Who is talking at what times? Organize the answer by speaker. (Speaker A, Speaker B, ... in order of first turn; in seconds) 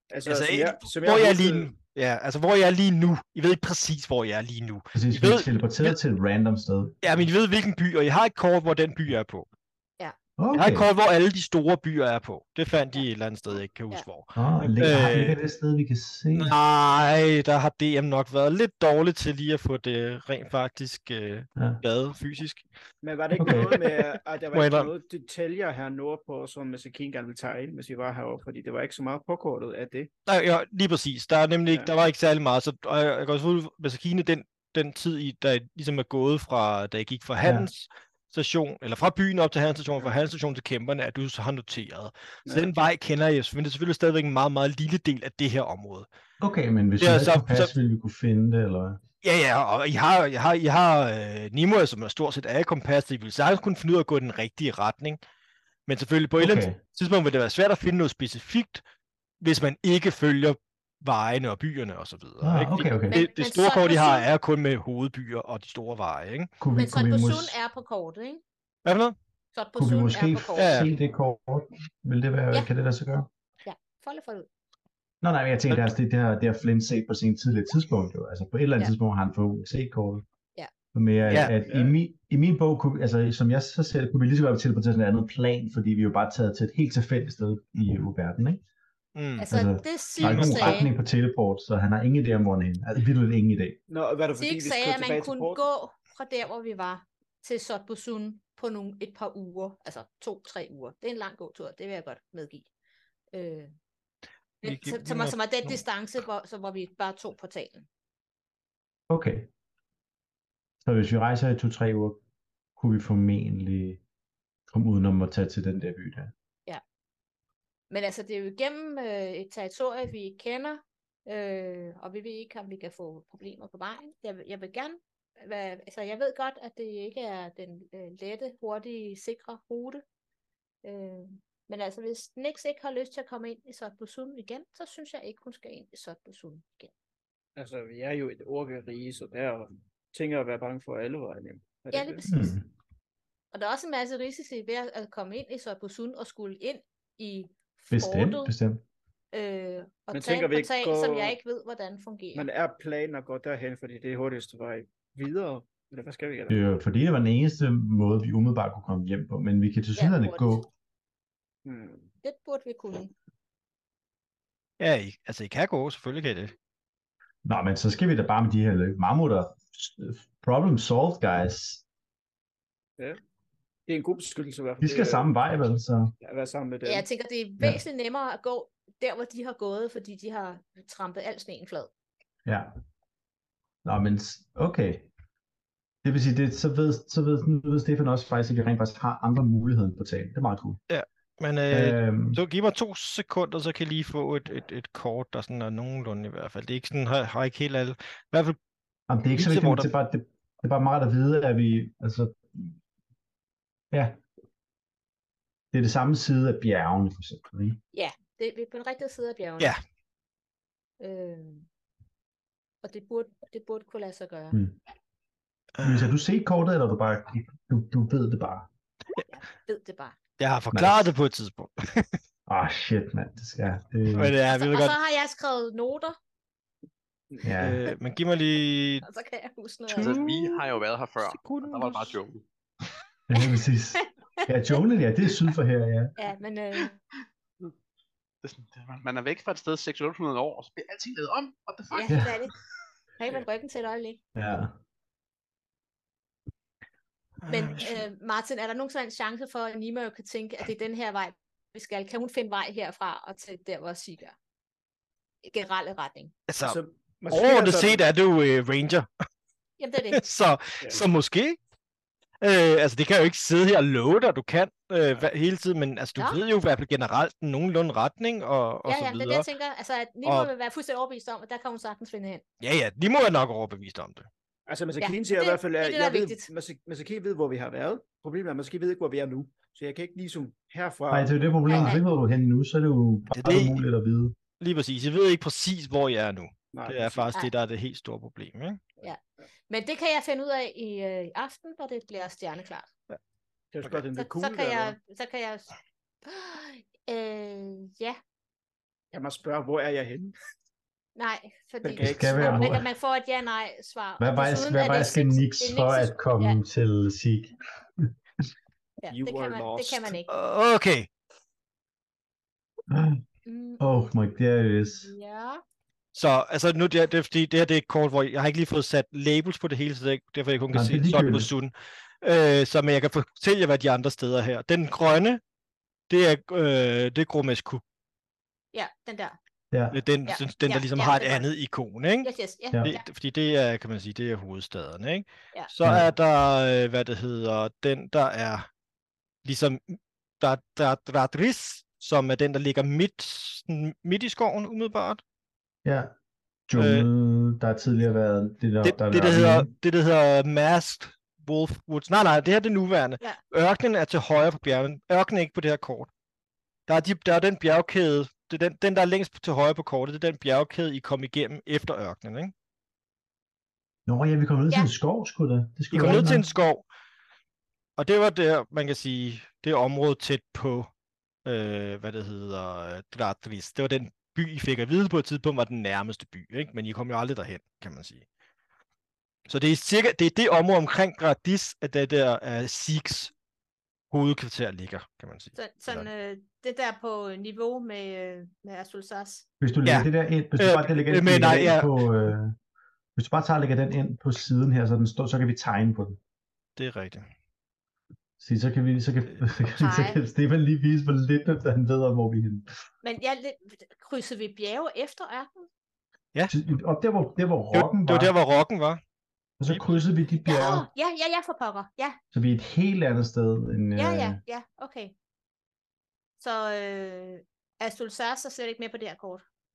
Speaker A: 0.1-1.7, 23.0-30.1, 81.7-82.0, 93.9-95.6, 137.6-142.4, 150.1-151.4, 152.3-156.6, 161.7-162.1, 173.9-175.3, 176.2-177.1, 256.6-258.1, 274.7-282.0, 286.7-287.3, 293.7-295.0, 299.1-300.3, 301.8-302.7, 309.1-310.1
Speaker B: 0.3-6.0, 7.0-9.5, 10.5-15.4, 16.3-22.6, 23.4-24.0, 24.5-24.9, 30.3-46.1, 47.0-47.7, 49.2-55.2, 55.9-58.8, 59.4-66.5, 68.8-69.2, 70.6-70.9, 81.3-81.5, 89.2-89.6, 90.2-90.8, 104.6-105.8, 164.8-166.5, 190.9-198.6, 199.3-199.9, 215.8-216.1, 220.4-222.2, 224.1-225.0, 227.6-229.1, 230.0-230.6, 231.2-232.2, 247.4-248.1, 256.5-259.1, 260.1-261.6, 262.4-269.5, 270.2-270.5, 272.6-274.3, 283.3-283.8, 284.6-288.8, 310.3-311.1, 316.1-325.4, 326.1-327.8, 329.9-332.3, 332.8-338.7, 339.4-345.2, 346.8-347.1, 348.8-356.1, 356.9-362.5, 365.9-366.9, 368.0-370.9, 371.4-378.2, 379.5-383.3, 384.1-386.1, 389.9-392.0, 396.8-397.2, 407.7-409.0, 409.7-410.0
Speaker C: 4.9-7.2, 10.4-10.9, 14.4-16.5, 23.3-23.7, 37.4-37.7, 46.4-49.0, 56.4-56.8, 62.4-63.2, 66.6-67.6, 69.8-73.3, 75.2-80.2, 80.9-88.6, 89.5-93.8, 109.1-109.5, 110.8-112.2, 112.8-114.0, 114.7-116.3, 142.3-142.7, 147.9-148.8, 156.5-160.7, 167.4-171.8, 174.8-176.1, 182.4-182.7, 183.8-185.1, 186.0-190.8, 191.7-192.4, 199.1-202.8, 203.9-204.2, 205.7-207.8, 214.5-214.8, 215.8-218.7, 220.7-221.1, 222.5-224.3, 227.4-227.8, 233.3-236.1, 242.1-242.3, 244.3-244.8, 281.1-284.4, 302.0-302.9, 304.2-308.1, 312.9-313.2, 313.8-315.1, 320.7-321.5, 329.7-330.0, 335.8-336.1, 345.9-346.1, 346.7-349.7, 364.1-366.4, 389.6-392.6, 393.2-396.2, 398.4-402.7, 406.5-408.3, 409.6-410.9, 412.3-414.4
Speaker D: 63.1-64.3, 66.8-68.4, 69.5-70.8, 73.7-74.5, 89.4-90.9, 94.4-102.7, 103.3-103.7, 104.6-107.9, 117.9-130.0, 130.8-136.9, 141.9-142.3, 143.5-148.5, 149.3-152.5, 160.0-160.7, 162.2-163.1, 176.8-181.9, 207.9-209.7, 211.0-211.7, 212.8-214.6, 219.3-220.2, 224.5-226.2, 229.0-230.3, 234.0-234.8, 236.2-237.0, 241.9-242.5, 243.2-244.2, 247.5-254.4, 255.4-256.3, 259.8-260.2, 268.9-272.4, 275.0-276.5, 281.7-282.0, 289.0-292.9, 294.2-295.7, 296.2-298.2, 301.2-306.6, 309.0-310.3, 313.5-313.8, 314.9-315.6, 328.7-329.4, 330.3-331.5, 332.2-333.0, 385.6-389.4, 399.8-400.2, 403.0-405.7, 410.4-412.2, 413.9-415.1, 416.4-419.4
Speaker E: 229.9-232.4, 238.4-242.3